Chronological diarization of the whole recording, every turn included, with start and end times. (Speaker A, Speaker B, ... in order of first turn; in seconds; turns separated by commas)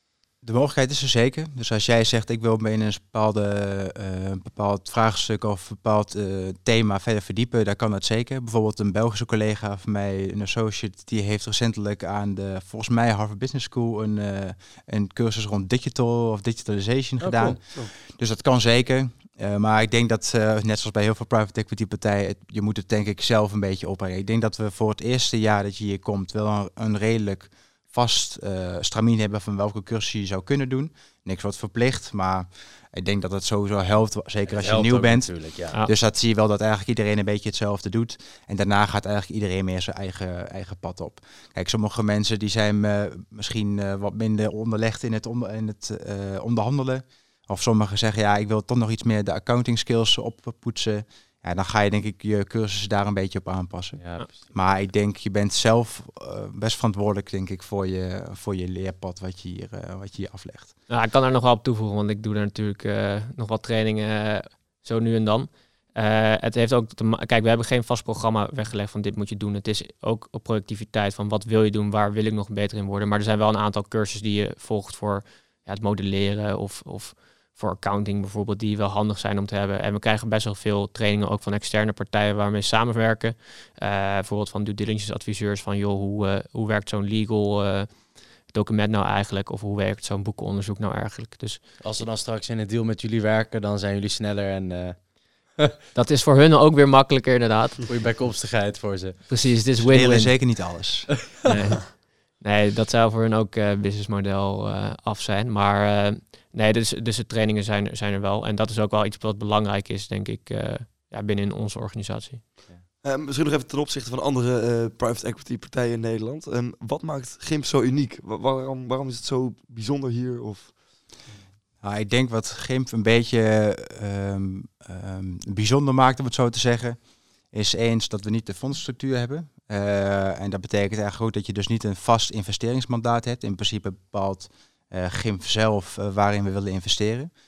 Speaker A: 0.4-60.7, Speaker B: 17.2-17.6, Speaker B: 34.5-35.8, Speaker B: 54.0-54.3, Speaker C: 60.9-91.8, Speaker B: 91.8-95.8, Speaker C: 95.9-97.9, Speaker B: 97.9-99.2, Speaker C: 99.3-100.7, Speaker A: 99.8-101.3, Speaker C: 101.4-112.5, Speaker D: 113.0-121.4, Speaker A: 121.8-127.0, Speaker A: 127.5-137.3